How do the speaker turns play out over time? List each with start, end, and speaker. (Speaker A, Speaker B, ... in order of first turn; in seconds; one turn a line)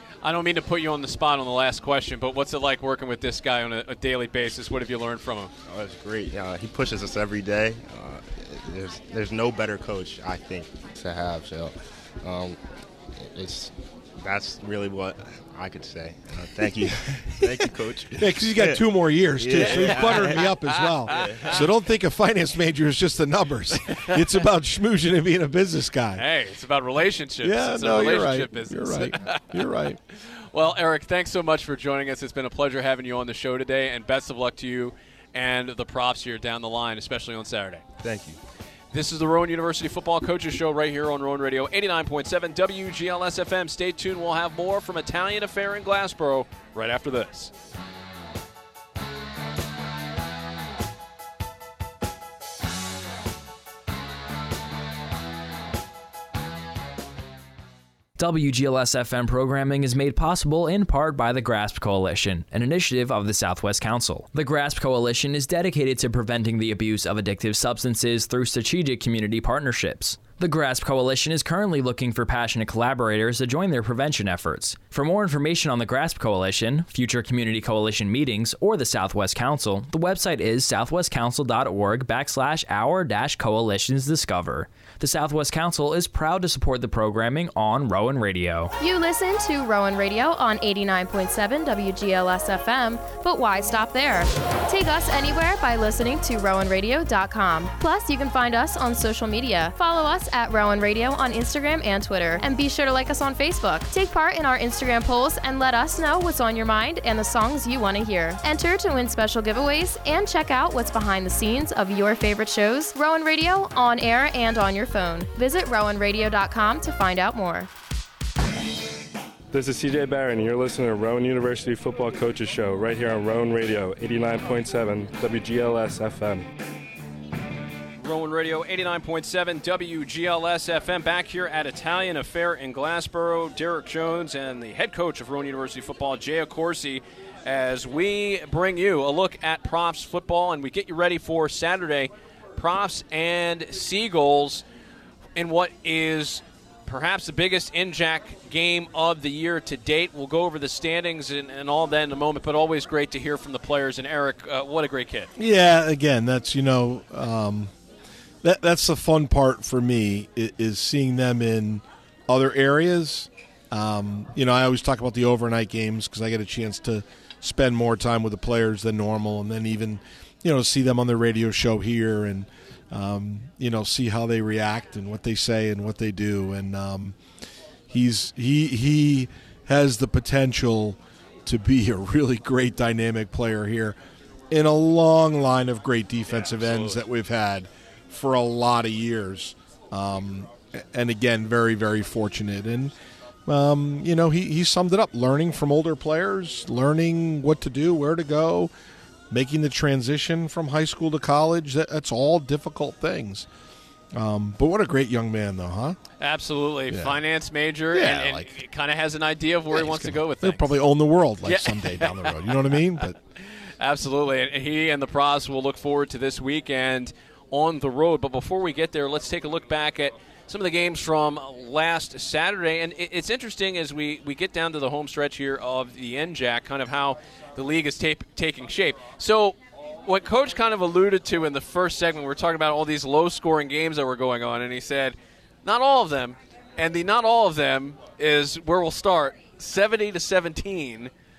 Speaker A: 0.2-5.5
Speaker B: 5.7-12.6
Speaker B: 13.2-18.9
Speaker C: 18.2-26.2
Speaker B: 19.4-20.4
Speaker A: 19.5-21.5
Speaker B: 21.1-21.6
Speaker A: 26.1-29.6
Speaker C: 27.4-30.0
Speaker A: 30.5-37.8
Speaker B: 38.0-38.4
Speaker A: 38.9-47.5
Speaker D: 58.2-88.7
Speaker E: 88.8-117.7
Speaker F: 119.5-126.4
Speaker A: 128.0-144.6
Speaker A: 145.3-155.3
Speaker C: 155.4-157.7
Speaker C: 158.4-177.2
Speaker C: 177.9-184.0
Speaker C: 184.5-192.9
Speaker A: 186.3-187.0
Speaker C: 193.5-198.7
Speaker C: 199.3-203.5
Speaker C: 204.1-206.0
Speaker A: 206.2-210.7
Speaker C: 206.9-207.2
Speaker C: 207.9-208.6
Speaker C: 209.7-213.2
Speaker A: 211.4-213.0
Speaker A: 213.8-241.1